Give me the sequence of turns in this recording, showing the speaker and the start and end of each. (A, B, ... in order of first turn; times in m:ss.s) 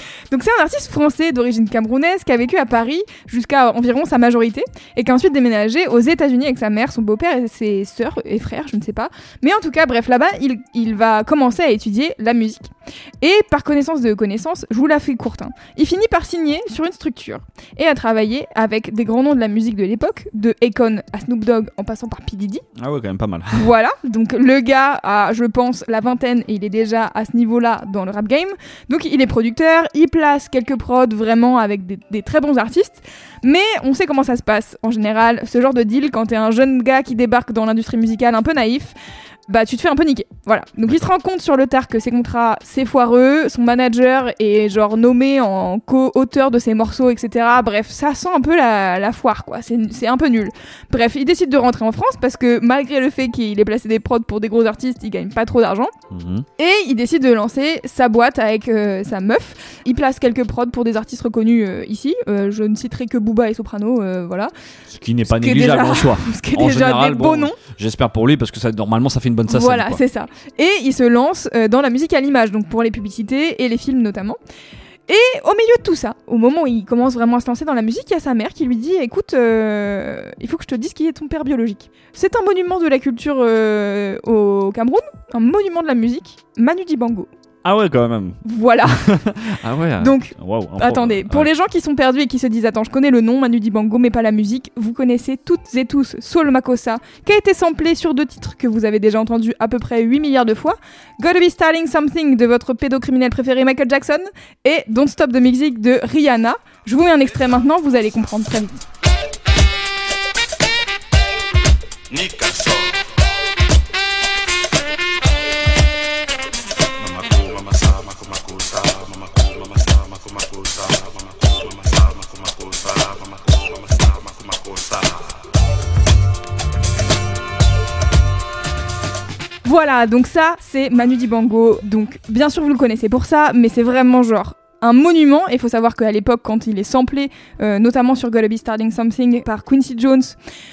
0:00.3-0:22.6 A
0:22.8-0:23.7 B
0:23.5-0:38.9 A
0:39.5-0:55.9 A
0:56.1-0:56.4 B
0:56.6-1:04.5 A
1:04.9-1:10.0 B
1:05.3-1:07.6 A
1:09.5-1:14.4 A
1:15.1-1:27.3 A
1:27.6-1:31.5 B
1:28.4-1:29.0 A
1:30.0-1:48.8 A
1:52.1-1:52.8 C
1:57.0-1:59.4 C
2:00.2-2:01.0 C
2:01.8-2:03.2 C
2:03.9-2:05.0 C
2:09.6-2:20.4 A